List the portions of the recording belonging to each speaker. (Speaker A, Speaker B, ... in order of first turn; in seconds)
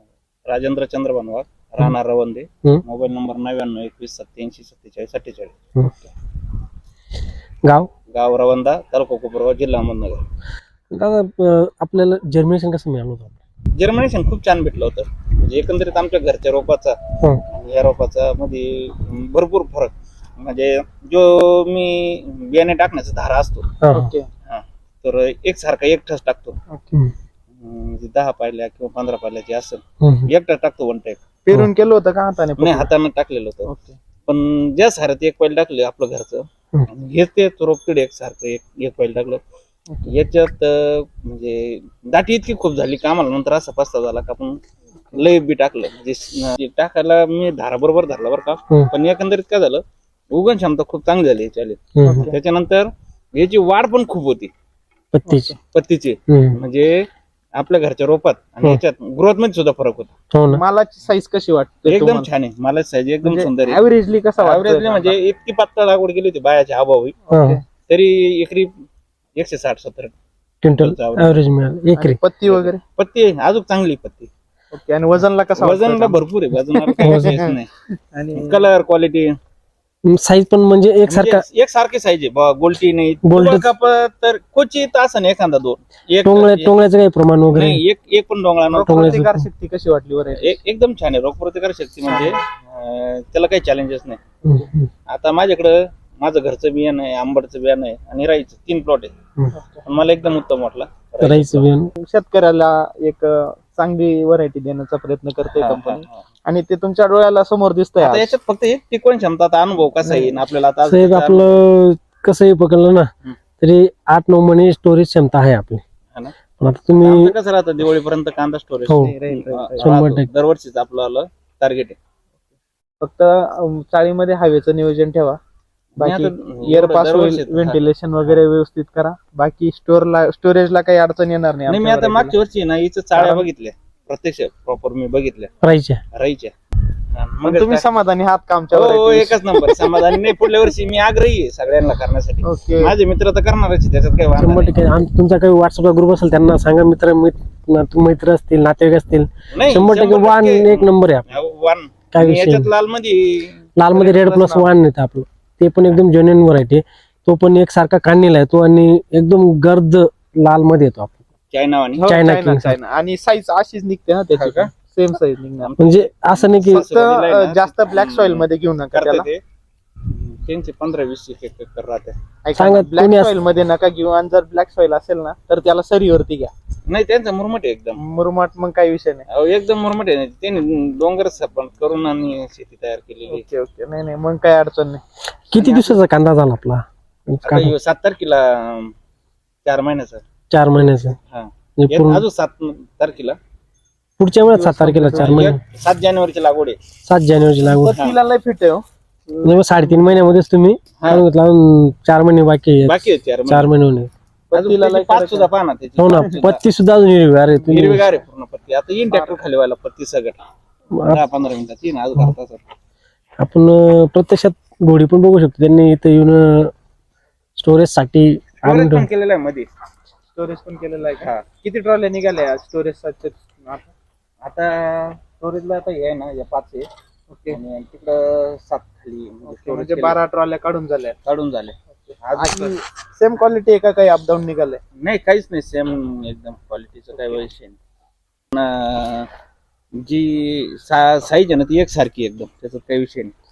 Speaker A: 0.5-5.5, 8.1-10.2, 13.8-23.7, 24.5-26.6, 27.6-31.3, 32.6-33.7, 34.3-39.4, 40.1-44.6, 45.1-54.5, 55.7-60.1, 61.9-63.9, 64.4-67.2, 67.9-68.7, 69.4-70.1, 70.7-71.4, 72.5-74.3, 75.6-77.7, 78.3-79.3, 81.1-86.8, 87.5-89.2, 90.3-94.2, 95.1-99.2, 99.9-101.7, 105.5-106.2, 108.0-111.6, 117.0-122.0, 126.0-128.4, 131.7-135.5, 136.1-136.5, 137.1-137.9, 138.7-144.9, 149.5-153.6, 161.5-162.1, 164.3-164.7, 165.6-169.4, 170.1-172.2, 176.9-178.0, 179.3-183.5, 185.5-186.0, 187.4-188.9, 189.7-190.2, 191.3-193.4, 195.1-196.8, 201.0-201.2, 202.8-203.7, 204.5-206.6, 207.7-210.4, 211.0-212.6, 218.6-219.7, 221.2-221.5, 224.4-226.9, 227.5-230.2, 231.2-232.8, 235.0-237.8, 238.5-239.3, 240.0-243.3
Speaker B: 7.6-7.9, 10.9-13.4, 23.8-24.1, 30.0-30.3, 52.0-52.3, 55.1-55.5, 56.3-56.6, 60.3-60.6, 67.3-67.6, 70.6-72.2, 77.0-77.5, 80.1-81.4, 83.2-83.7, 86.2-87.8, 88.9-89.5, 94.5-94.9, 101.2-101.9, 110.9-113.1, 113.6-115.8, 116.6-117.3, 118.9-119.2, 119.8-120.3, 135.6-136.0, 144.4-151.3, 152.1-152.7, 153.8-161.2, 162.1-162.8, 165.8-166.8, 172.6-173.3, 185.5-187.8, 190.5-191.2, 191.8-192.2, 194.2-195.6, 197.1-197.9, 199.4-204.1, 206.0-208.1, 210.9-211.2, 213.4-216.7, 217.6-219.1
Speaker C: 23.9-24.3, 26.7-27.0, 31.5-32.9, 33.7-34.0, 52.0-52.4, 55.3-55.5, 60.5-62.3, 63.2-65.2, 67.3-67.6, 72.0-72.8, 74.7-78.7, 88.7-90.6, 92.1-92.4, 99.5-99.8, 102.0-108.3, 110.1-110.4, 118.9-120.0, 123.0-125.4, 126.0-132.4, 133.2-133.5, 137.4-140.0, 142.4-142.9, 153.9-154.7, 161.9-165.7, 166.7-169.3, 172.4-176.5, 178.0-179.3, 183.3-185.0, 194.5-195.5, 197.7-200.2, 204.5-205.5, 206.1-206.4, 209.1-209.4, 220.3-223.9, 227.3-227.6, 229.5-231.2, 232.1-234.8